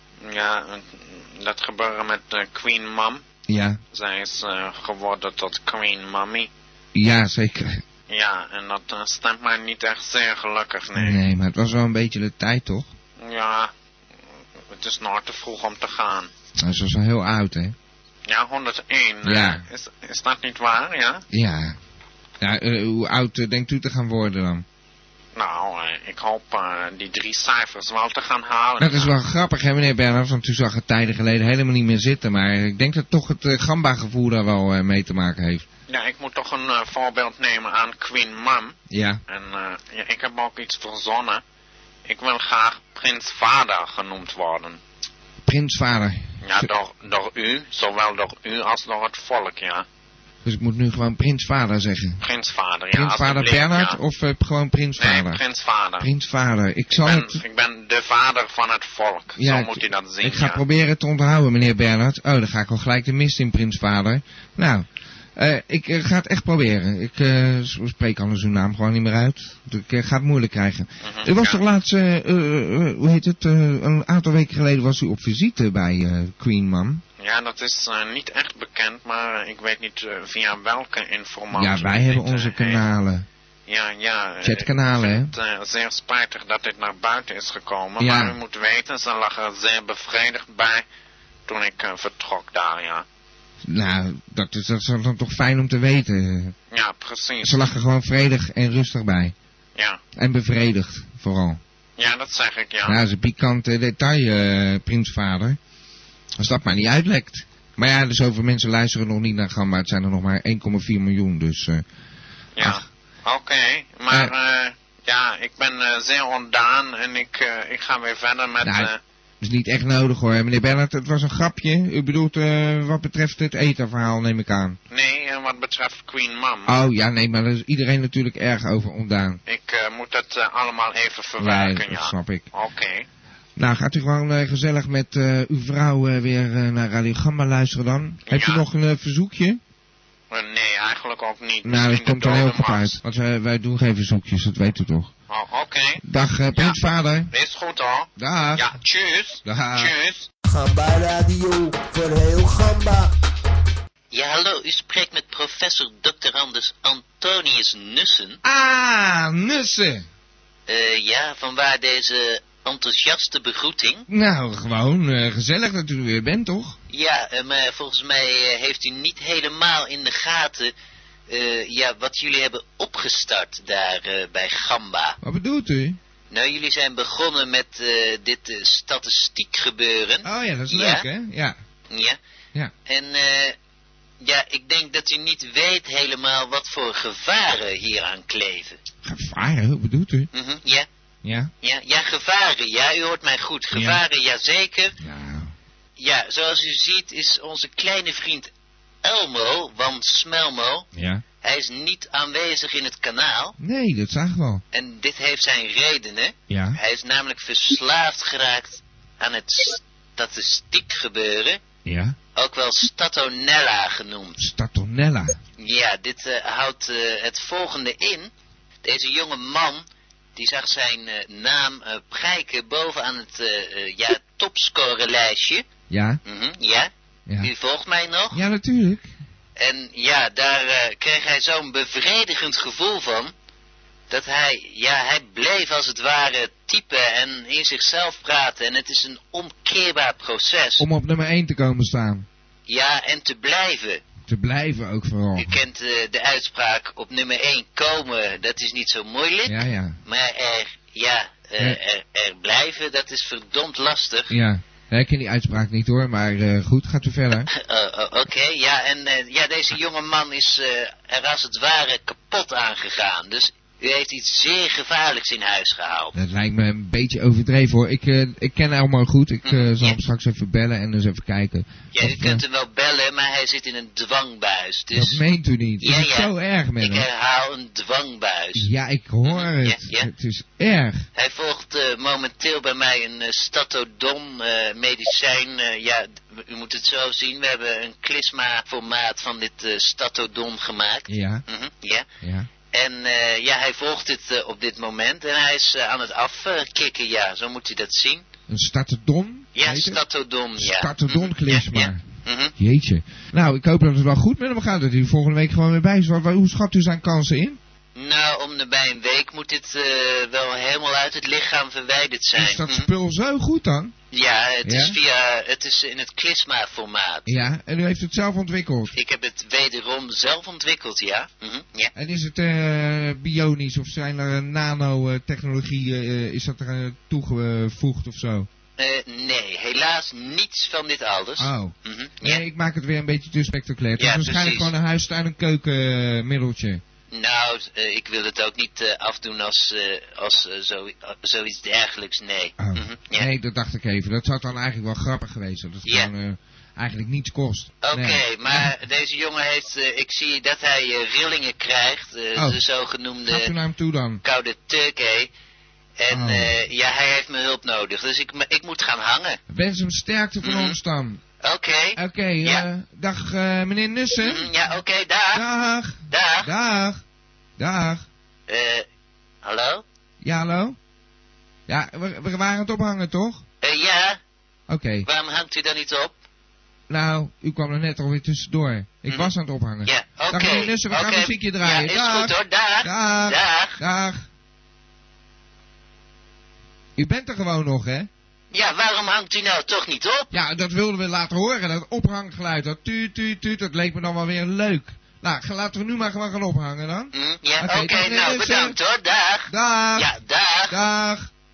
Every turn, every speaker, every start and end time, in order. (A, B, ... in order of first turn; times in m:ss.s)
0:00.2-0:03.2 A
0:03.5-0:03.8 B
0:03.9-0:06.5 A
0:06.9-0:07.8 B
0:08.1-0:11.2 A
0:10.9-0:12.9 B
0:13.2-0:13.7 A
0:14.7-0:16.3 A
0:16.6-0:17.7 B
0:18.3-0:21.2 A
0:19.2-0:19.6 B
0:21.3-0:21.8 B
0:22.4-0:24.6 B
0:25.3-0:29.1 A
0:28.8-0:35.6 B
0:35.9-0:38.8 A
0:38.9-0:39.2 B
0:39.3-0:41.4 A
0:42.0-0:44.8 A
0:45.4-0:46.7 B
0:46.4-0:49.8 A
0:50.4-0:52.2 B
0:52.2-0:54.0 A
0:52.9-0:55.4 B
0:55.0-0:56.1 A
0:56.0-0:57.4 B
0:56.9-1:00.6 A
0:59.4-1:17.0 B
1:11.0-1:11.6 A
1:17.2-1:22.8 A
1:21.5-1:23.2 B
1:23.7-1:30.8 A
1:24.4-1:25.3 B
1:28.0-1:28.3 B
1:31.5-1:33.0 A
1:33.6-1:36.5 B
1:36.7-1:37.7 A
1:37.4-1:39.3 B
1:40.2-1:41.6 B
1:42.0-1:43.0 A
1:42.8-1:45.6 B
1:46.4-1:51.8 B
1:52.6-1:59.0 A
1:58.6-2:04.8 B
2:04.9-2:06.8 A
2:06.7-2:09.4 B
2:09.5-2:13.1 A
2:11.4-2:12.4 B
2:13.6-2:19.6 B
2:18.3-2:18.6 A
2:20.3-2:23.0 A
2:21.6-2:25.1 B
2:25.3-2:26.0 A
2:26.0-2:27.3 B
2:27.3-2:30.3 A
2:28.2-2:28.7 B
2:29.4-2:29.9 B
2:30.5-2:33.1 C
2:34.1-2:38.4 D
2:38.4-2:40.0 B
2:40.7-2:44.1 D
2:44.1-2:46.8 B
2:46.9-2:50.7 D
2:51.3-2:55.2 D
2:55.2-2:56.0 B
2:56.3-3:01.0 D
3:00.2-3:01.6 B
3:01.9-3:02.2 D
3:02.9-3:03.5 D
3:04.2-3:08.8 D
3:09.0-3:10.3 B
3:10.3-3:10.9 D
3:11.2-3:11.5 B
3:11.6-3:14.9 D
3:13.7-3:14.0 B
3:15.0-3:15.5 B
3:16.0-3:18.5 D
3:19.0-3:20.9 D
3:20.9-3:21.2 B
3:21.4-3:23.6 D
3:23.6-3:24.6 B
3:24.7-3:31.6 D
3:26.5-3:26.8 B
3:31.8-3:32.2 B
3:32.4-3:34.4 D
3:34.4-3:35.4 B
3:35.6-3:38.3 D
3:38.8-3:39.8 D
3:40.4-3:45.6 D
3:45.9-3:46.2 B
3:46.2-3:46.9 D
3:47.4-3:48.4 D
3:48.3-3:49.1 B
3:49.6-3:53.3 D
3:54.1-4:00.8 D
4:00.8-4:02.3 B
4:02.7-4:04.0 D
4:04.3-4:05.6 B
4:05.4-4:14.3 D
4:09.5-4:10.0 B
4:14.3-4:17.5 B
4:17.5-4:26.1 D
4:26.1-4:32.4 B
4:29.4-4:30.0 D
4:31.9-4:35.2 D
4:34.9-4:37.1 B
4:35.8-4:38.7 D
4:38.5-4:41.1 B
4:39.2-4:40.1 D
4:41.2-4:52.0 D
4:51.1-4:51.4 B
4:52.2-4:52.5 B
4:52.7-4:58.2 D
4:58.5-5:00.0 B
4:59.5-5:02.5 D
5:00.6-5:02.0 B
5:02.6-5:07.6 B
5:07.9-5:12.9 D
5:12.3-5:13.9 B
5:14.1-5:17.3 D
5:14.6-5:15.0 B
5:17.3-5:18.9 B
5:18.9-5:21.9 D
5:21.9-5:28.5 B
5:28.8-5:32.4 D
5:31.4-5:36.8 B
5:34.0-5:34.7 D
5:37.1-5:43.3 D
5:42.6-5:48.7 B
5:45.8-5:46.1 D
5:47.8-5:53.5 D
5:53.2-5:54.2 B
5:54.2-5:55.3 D
5:56.0-5:59.4 D
5:56.1-5:56.5 B
5:59.5-6:01.2 B
6:00.4-6:00.8 D
6:01.4-6:02.6 D
6:02.0-6:04.5 B
6:04.2-6:05.4 D
6:05.3-6:07.0 B
6:06.1-6:06.5 D
6:07.6-6:08.0 B
6:08.5-6:08.8 D
6:09.4-6:09.8 D
6:10.2-6:10.8 B
6:11.7-6:13.4 B
6:13.6-6:14.2 D
6:14.7-6:15.1 B
6:15.0-6:16.2 D
6:16.9-6:24.2 B
6:19.8-6:23.8 D
6:27.0-6:28.1 B
6:28.5-6:30.3 D
6:30.3-6:38.8 B
6:37.1-6:40.8 D
6:39.5-6:40.1 B
6:40.7-6:41.3 B